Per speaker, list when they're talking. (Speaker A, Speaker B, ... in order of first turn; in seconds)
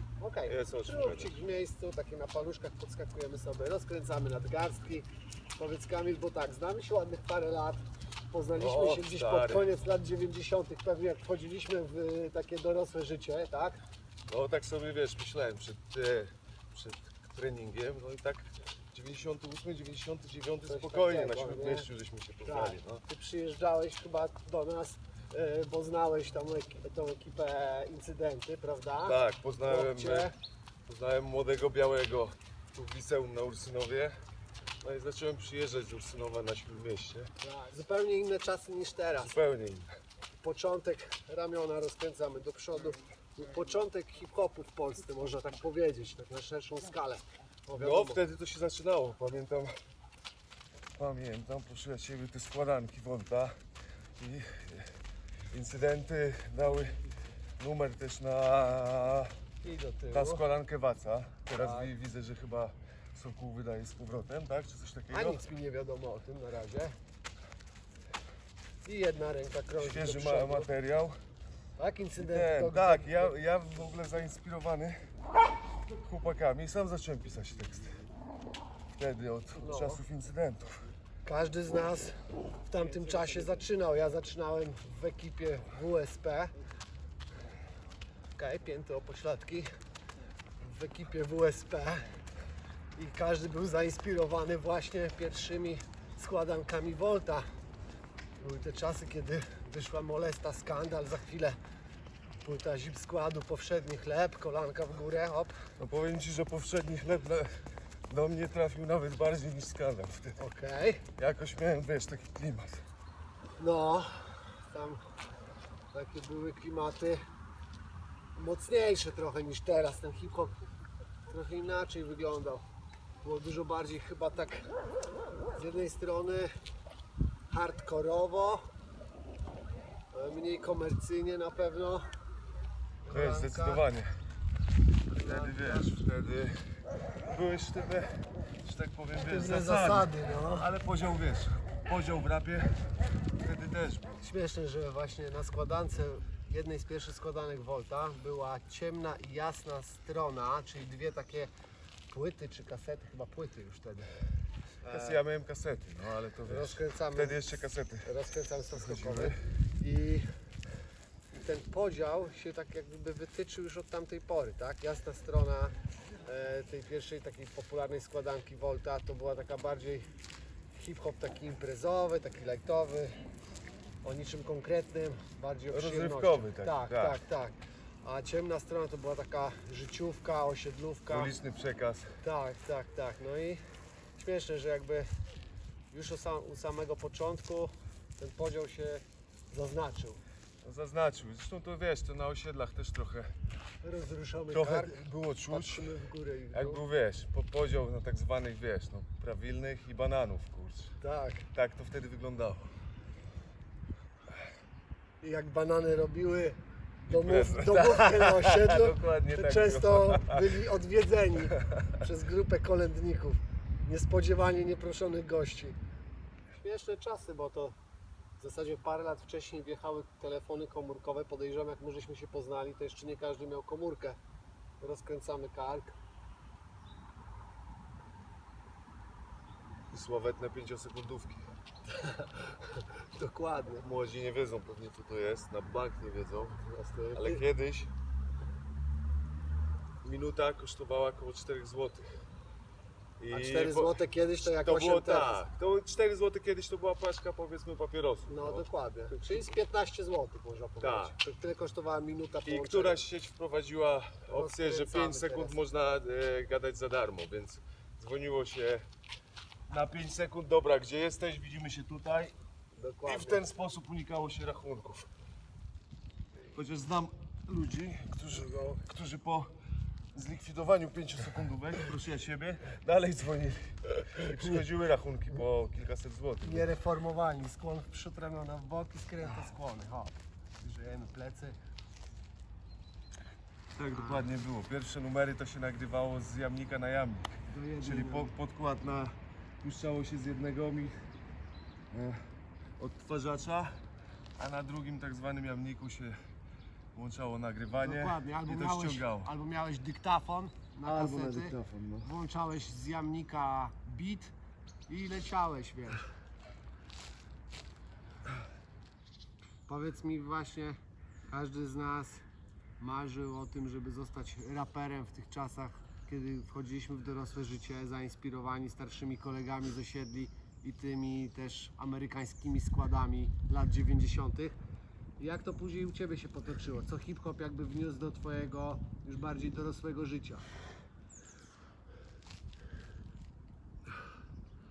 Speaker A: 0.2-13.8, 20.6-21.9, 22.4-30.3, 37.4-39.4, 40.4-48.2, 59.6-60.4, 61.5-61.9, 65.1-67.0, 68.8-70.7, 71.8-73.3, 79.5-80.0, 81.2-86.5, 88.4-89.7, 90.6-92.2, 93.0-97.5, 98.4-101.6, 102.4-105.7, 110.4-111.0, 113.6-115.0, 115.9-117.2, 118.3-120.5, 121.3-122.7, 123.2-124.7, 125.5-126.5, 127.5-128.7, 130.1-132.1, 133.0-133.8, 135.1-135.9, 139.2-140.7, 144.2-151.5, 152.1-154.1, 154.8-155.2, 156.4-160.3, 161.3-170.1, 170.7-173.3, 174.0-181.3, 182.2-183.6, 184.2-185.1, 185.9-190.2, 193.8-196.8, 201.0-201.5, 205.2-215.8, 216.6-217.8, 218.4-224.2, 224.8-225.9, 231.9-233.9, 236.6-237.4, 243.3-245.4, 248.3-253.0, 254.3-255.6, 262.8-263.4, 268.3-268.8, 276.4-281.6, 283.9-284.3, 287.5-288.3, 297.8-304.3, 304.9-306.1, 309.7-312.2, 312.8-324.6, 325.2-330.5
Speaker B: 0.5-1.4, 8.6-9.6, 14.3-23.0, 29.0-30.3, 30.9-34.2, 34.8-37.3, 39.2-39.9, 47.7-49.7, 50.9-53.6, 54.2-55.0, 55.5-57.0, 57.6-59.4, 60.1-65.4, 69.8-71.2, 72.2-78.0, 79.0-80.9, 105.8-110.4, 111.2-112.9, 133.1-134.1, 135.2-144.2, 154.8-158.1, 158.7-159.4, 175.7-177.2, 181.1-182.2, 190.6-193.3, 194.5-195.9, 196.5-200.9, 201.5-202.7, 207.1-210.6, 211.6-212.0, 229.9-231.6, 233.8-236.6, 237.1-237.9, 240.0-242.1, 243.2-249.6, 250.8-251.2, 252.4-258.9, 259.7-262.4, 263.0-265.1, 266.5-269.5, 270.1-276.7, 283.7-291.1, 291.9-293.8, 294.4-296.2, 296.9-299.3, 300.8-302.1